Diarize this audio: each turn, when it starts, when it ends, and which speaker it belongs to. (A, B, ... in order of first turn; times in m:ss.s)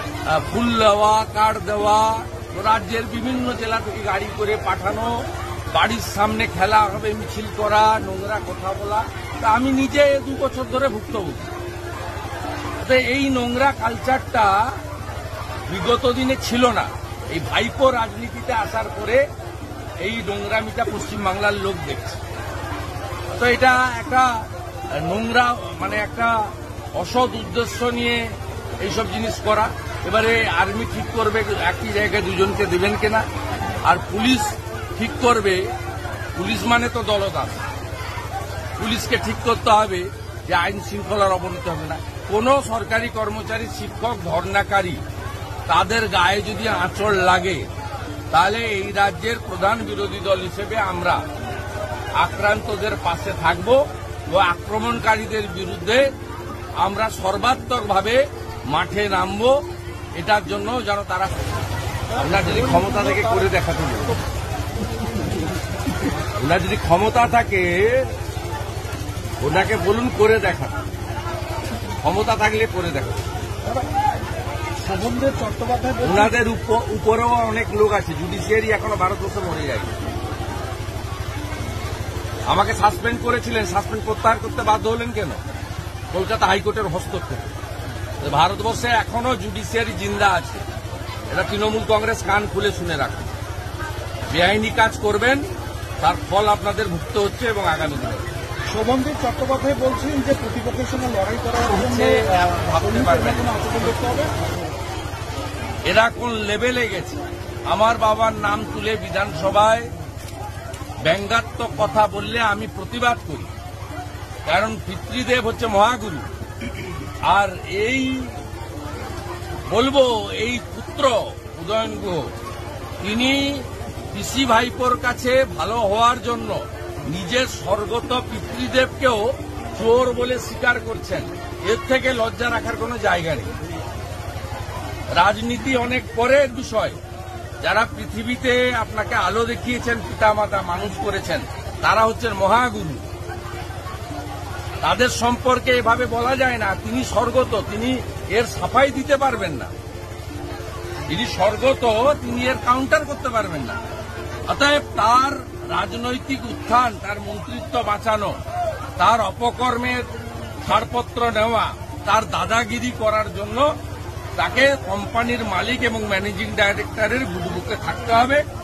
0:00.2-0:05.2 A
0:05.7-0:11.5 A
0:12.8-0:14.7 A
0:15.7-0:19.2 A
0:20.0-0:22.2 A
0:23.3-0:26.4 A
0:26.9-0:33.2 A
0:33.8-0:35.6 A
0:36.4-0:37.6 A
0:38.8-0:45.0 A
0:45.7-0:47.7 A
0:48.3-0:51.2 A
0:52.2-0:56.1 A
0:56.8-0:59.6 A
1:00.1-1:01.4 A
1:02.1-1:04.2 A
1:02.2-1:03.3 B
1:06.2-1:08.1 A
1:09.4-1:10.8 A
1:12.0-1:13.3 A
1:14.8-1:16.3 B
1:16.0-1:19.9 A
1:22.5-1:25.4 A
1:26.1-1:27.5 A
1:28.2-1:30.6 A
1:31.3-1:33.3 A
1:34.3-1:35.4 A
1:36.0-1:38.3 A
1:38.7-1:44.3 B
1:41.7-1:44.3 A
1:45.8-1:49.9 A
1:51.0-1:53.5 A
1:54.4-1:56.3 A
1:57.2-1:58.4 A
1:59.7-2:02.3 A
2:03.0-2:13.5 A
2:15.1-2:17.0 A
2:17.6-2:23.1 A
2:24.8-2:29.7 A
2:31.1-2:33.8 A
2:34.5-2:38.4 A
2:39.0-2:40.1 A
2:40.6-2:43.7 A
2:44.4-2:48.4 A